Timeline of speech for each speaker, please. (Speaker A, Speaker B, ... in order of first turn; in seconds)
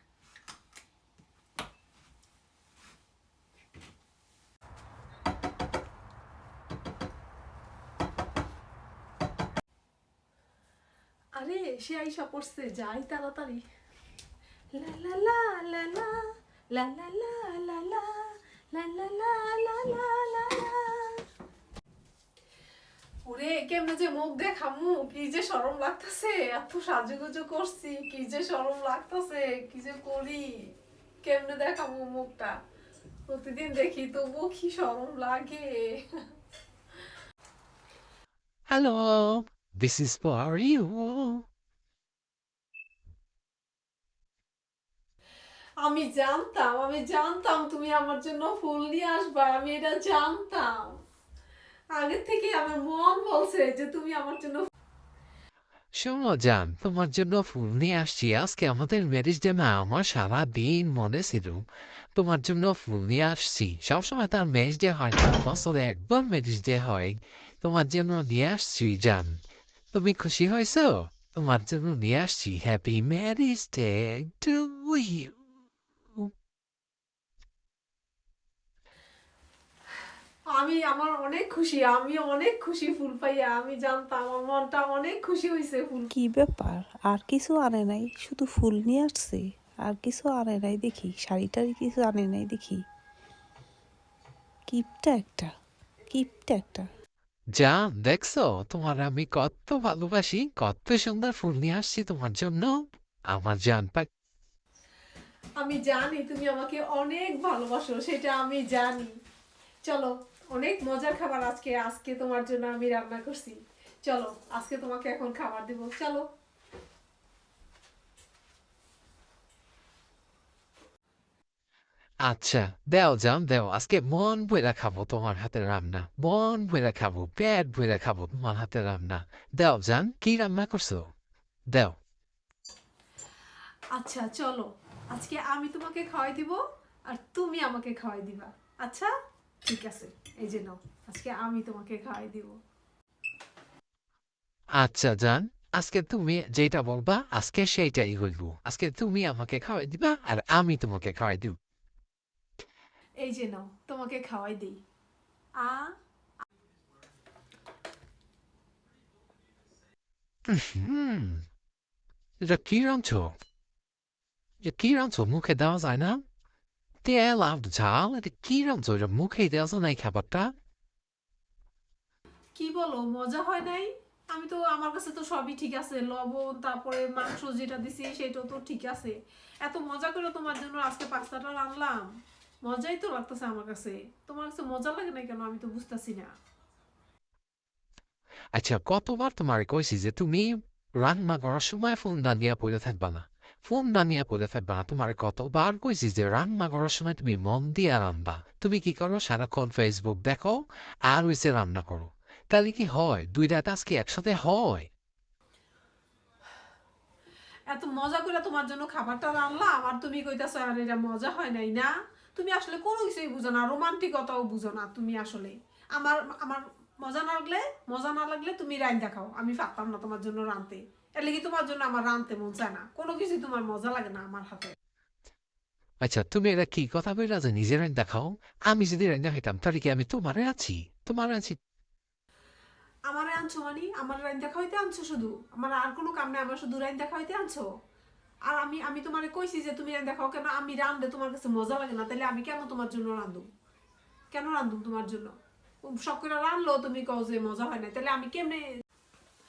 Speaker A: 11.3-13.6, 14.7-16.2, 16.7-21.2, 23.2-30.7, 31.2-32.5, 33.3-36.0, 45.8-51.0, 51.9-54.6, 80.5-86.1, 105.6-109.1, 109.9-116.2, 133.9-139.1, 139.7-142.6, 153.2-154.8, 155.6-155.9, 172.6-182.1, 182.7-186.3, 207.7-224.7, 233.1-237.7, 238.5-243.5, 244.3-245.3, 245.8-248.6
Speaker B: 38.7-41.4, 55.9-69.3, 69.9-75.3, 97.5-104.1, 122.2-131.1, 131.7-132.0, 144.8-151.5, 160.5-161.4, 162.4-163.3, 164.6-166.2, 167.0-170.5, 188.5-204.9, 226.0-231.6
Speaker C: 86.2-92.8, 94.7-95.5, 96.1-96.9